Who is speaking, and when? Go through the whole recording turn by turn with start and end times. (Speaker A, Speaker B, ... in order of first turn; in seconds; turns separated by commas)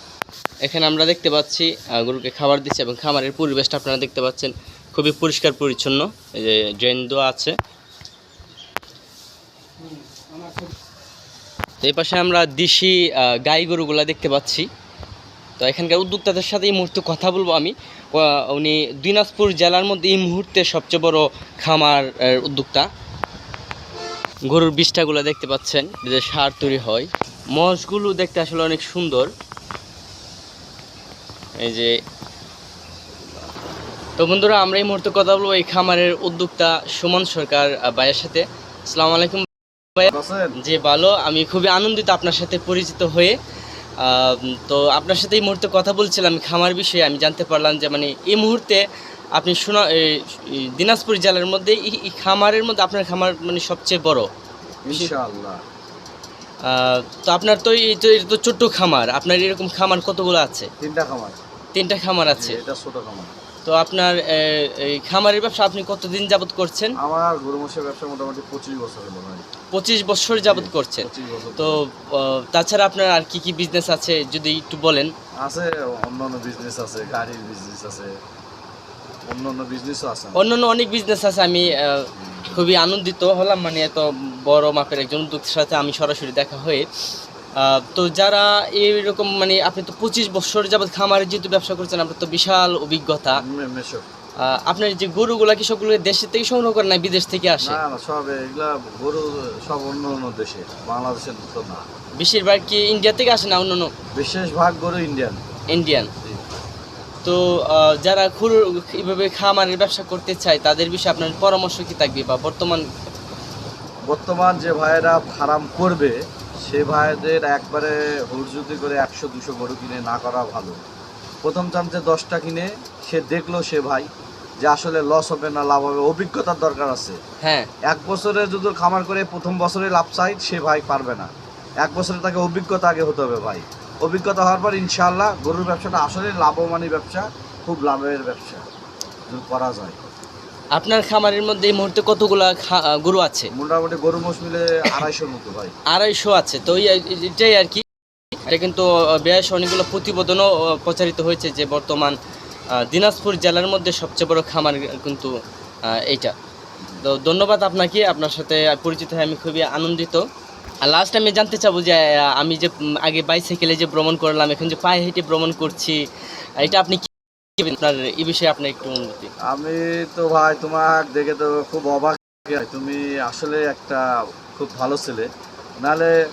Speaker A: 0.6-7.5, Speaker A: 11.8-14.7, Speaker A: 15.6-22.9, Speaker A: 24.5-29.3, Speaker A: 31.6-32.0, Speaker A: 34.2-43.4, Speaker B: 40.0-40.5, Speaker A: 44.0-48.8, Speaker A: 49.3-54.3, Speaker B: 54.8-55.6, Speaker A: 56.6-60.7, Speaker B: 60.8-61.4, Speaker A: 61.7-62.6, Speaker B: 62.2-63.3, Speaker A: 63.6-67.0, Speaker B: 67.0-69.4, Speaker A: 69.7-75.1, Speaker B: 70.4-71.8, Speaker B: 75.4-78.1, Speaker B: 79.2-80.4, Speaker A: 80.3-86.8, Speaker B: 82.1-82.6, Speaker A: 87.6-93.4, Speaker B: 93.3-94.1, Speaker A: 94.4-97.8, Speaker B: 97.6-101.8, Speaker A: 102.2-103.9, Speaker B: 104.1-105.4, Speaker A: 105.7-106.1, Speaker A: 107.2-112.8, Speaker B: 114.1-120.8, Speaker B: 121.4-124.1, Speaker B: 124.6-127.2, Speaker A: 127.4-127.7, Speaker B: 127.8-131.3, Speaker B: 131.8-138.7, Speaker B: 139.3-140.0, Speaker A: 140.7-143.5, Speaker B: 143.5-145.8, Speaker A: 145.9-147.8, Speaker A: 148.4-152.2, Speaker A: 152.8-155.3, Speaker A: 155.8-156.3, Speaker A: 157.0-160.2, Speaker A: 160.8-166.0, Speaker A: 166.6-169.3, Speaker B: 169.4-175.3, Speaker B: 175.8-176.1